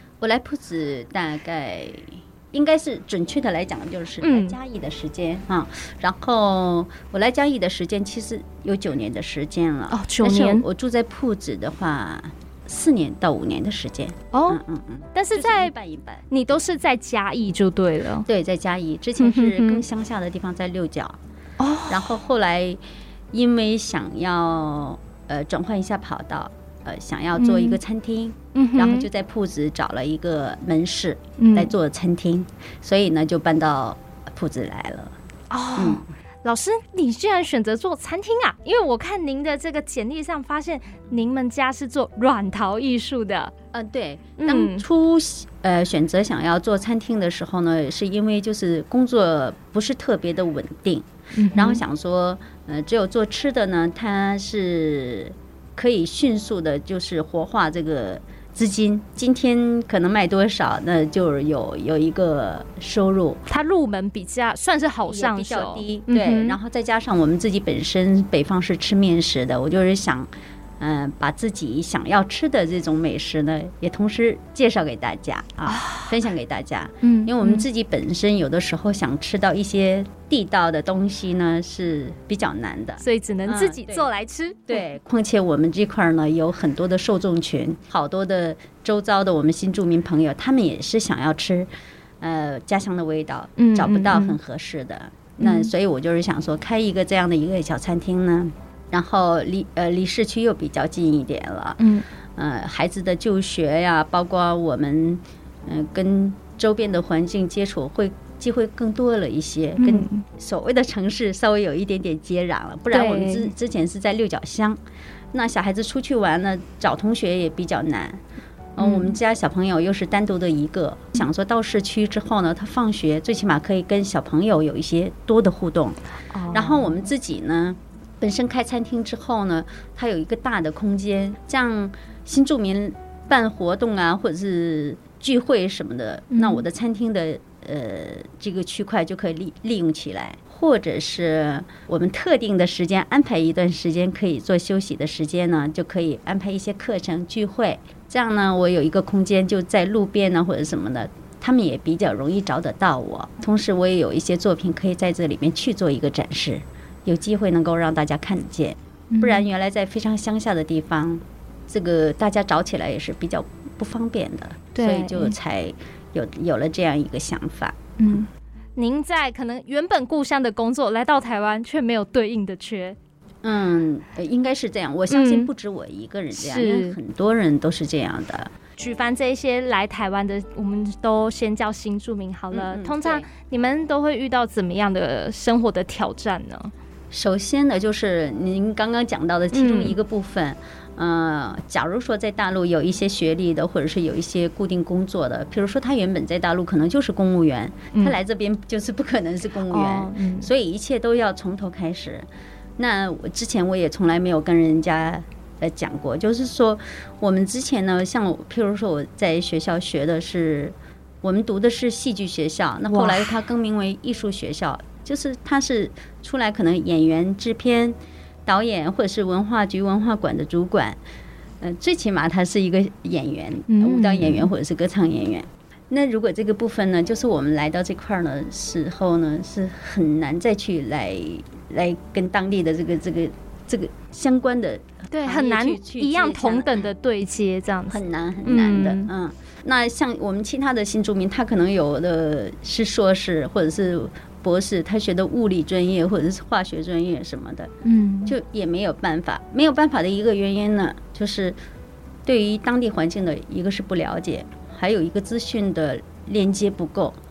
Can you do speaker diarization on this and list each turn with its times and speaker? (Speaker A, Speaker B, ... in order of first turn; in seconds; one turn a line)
Speaker A: 0.2-16.2
Speaker B: 4.2-4.6
Speaker B: 9.9-10.7
Speaker B: 14.3-14.6
Speaker B: 15.2-15.7
Speaker B: 16.3-18.3
Speaker A: 18.3-21.2
Speaker B: 19.2-19.8
Speaker B: 21.6-22.1
Speaker A: 21.9-22.8
Speaker A: 23.3-35.1
Speaker B: 27.4-27.8
Speaker B: 28.6-29.1
Speaker B: 31.4-31.7
Speaker B: 35.5-43.5
Speaker A: 35.8-36.1
Speaker A: 43.7-63.4
Speaker B: 44.4-44.8
Speaker B: 51.4-51.8
Speaker B: 63.5-66.6
Speaker A: 65.1-70.3
Speaker A: 70.8-84.1
Speaker B: 75.7-76.2
Speaker B: 77.0-77.7
Speaker B: 83.0-84.8
Speaker A: 84.7-91.7
Speaker A: 92.2-101.8
Speaker B: 93.6-94.4
Speaker B: 95.4-95.7
Speaker B: 101.8-102.0
Speaker A: 102.4-114.8
Speaker B: 109.8-110.2
Speaker B: 112.9-113.5
Speaker A: 115.3-118.2
Speaker A: 118.8-126.0
Speaker B: 118.8-119.1
Speaker B: 126.3-127.0
Speaker A: 126.5-168.0
Speaker B: 136.3-136.6
Speaker B: 159.1-159.4
Speaker B: 164.8-165.3
Speaker B: 168.0-173.0
Speaker A: 173.4-178.5
Speaker B: 175.1-175.5
Speaker B: 176.3-177.0
Speaker B: 178.8-186.7
Speaker A: 182.5-183.3
Speaker A: 187.1-202.3
Speaker B: 189.5-189.9
Speaker B: 199.7-200.5
Speaker A: 202.8-221.0
Speaker B: 212.9-213.4
Speaker A: 221.6-236.8
Speaker B: 223.7-224.5
Speaker B: 235.1-239.1
Speaker A: 237.9-247.7
Speaker B: 247.8-248.3
Speaker A: 248.3-251.6
Speaker A: 252.3-257.2